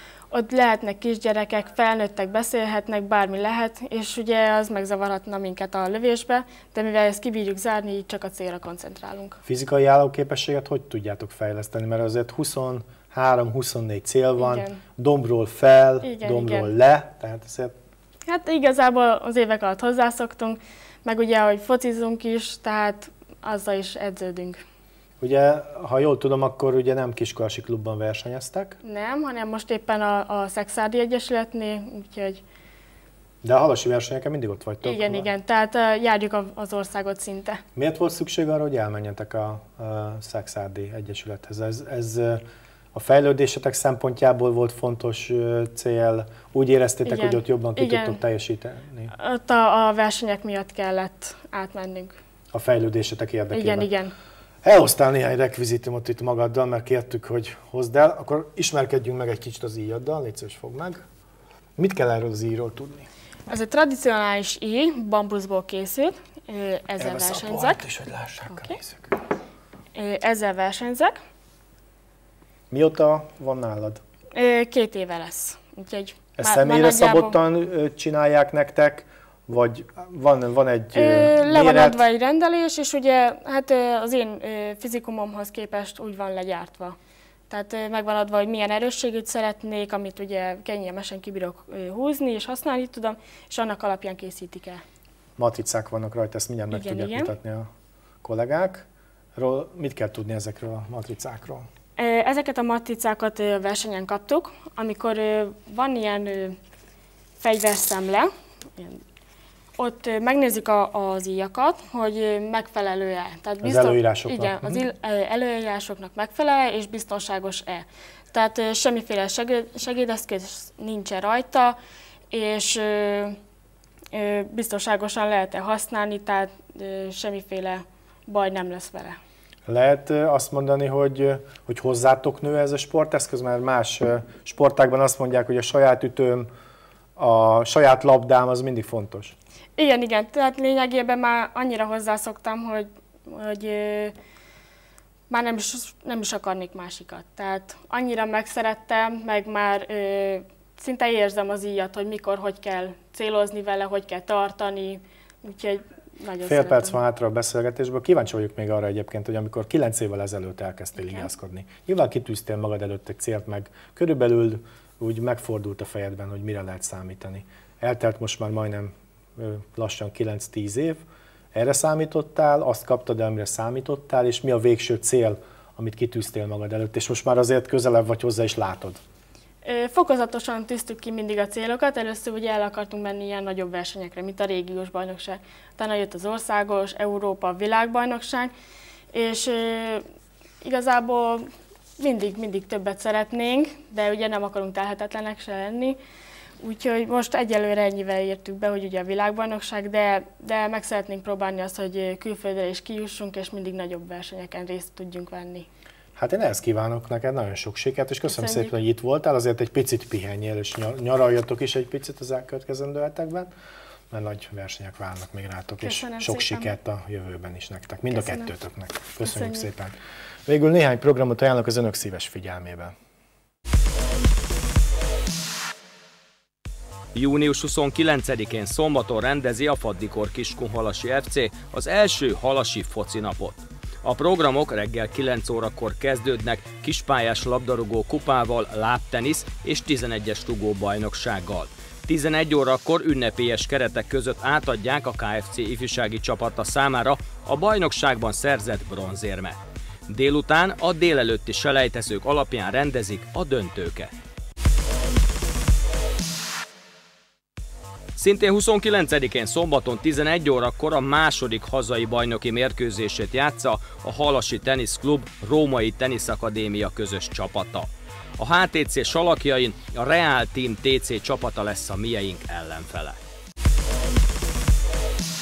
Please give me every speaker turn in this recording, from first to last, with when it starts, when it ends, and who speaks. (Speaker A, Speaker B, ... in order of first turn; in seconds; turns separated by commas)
Speaker A: 0.3-9.4, Speaker B: 9.4-17.8, Speaker A: 14.4-14.8, Speaker A: 16.0-16.7, Speaker A: 18.3-24.6, Speaker B: 25.2-28.8, Speaker A: 28.8-32.4, Speaker B: 33.4-35.3, Speaker A: 34.8-37.6, Speaker B: 37.8-42.4, Speaker B: 42.9-49.1, Speaker A: 47.0-48.2, Speaker A: 49.1-52.2, Speaker B: 52.5-53.9, Speaker A: 53.5-54.1, Speaker B: 54.6-61.0, Speaker B: 61.8-63.1, Speaker A: 63.5-67.8, Speaker B: 67.0-69.1, Speaker A: 68.5-68.8, Speaker A: 70.0-71.2, Speaker B: 72.7-74.0, Speaker A: 74.3-77.4, Speaker B: 76.4-82.0, Speaker A: 80.9-87.0, Speaker A: 87.5-94.8, Speaker B: 95.4-97.7, Speaker A: 96.7-97.3, Speaker B: 98.2-101.7, Speaker A: 102.0-106.6, Speaker A: 107.4-109.0, Speaker A: 109.8-121.8, Speaker B: 113.6-114.9, Speaker A: 122.3-123.4, Speaker A: 124.1-129.2, Speaker B: 129.7-136.5, Speaker B: 137.2-139.3, Speaker A: 139.8-144.2, Speaker A: 145.3-157.0, Speaker B: 156.4-171.0, Speaker A: 161.0-161.3, Speaker B: 171.5-179.0, Speaker A: 179.7-188.5, Speaker A: 189.1-190.0, Speaker A: 190.6-191.5, Speaker A: 192.0-196.0, Speaker A: 196.6-205.7, Speaker B: 206.2-213.5, Speaker A: 208.3-208.7, Speaker B: 214.1-222.9, Speaker A: 215.8-216.7, Speaker A: 218.1-218.5, Speaker A: 219.2-219.7, Speaker C: 227.2-249.6, Speaker C: 250.1-254.1, Speaker C: 258.2-273.2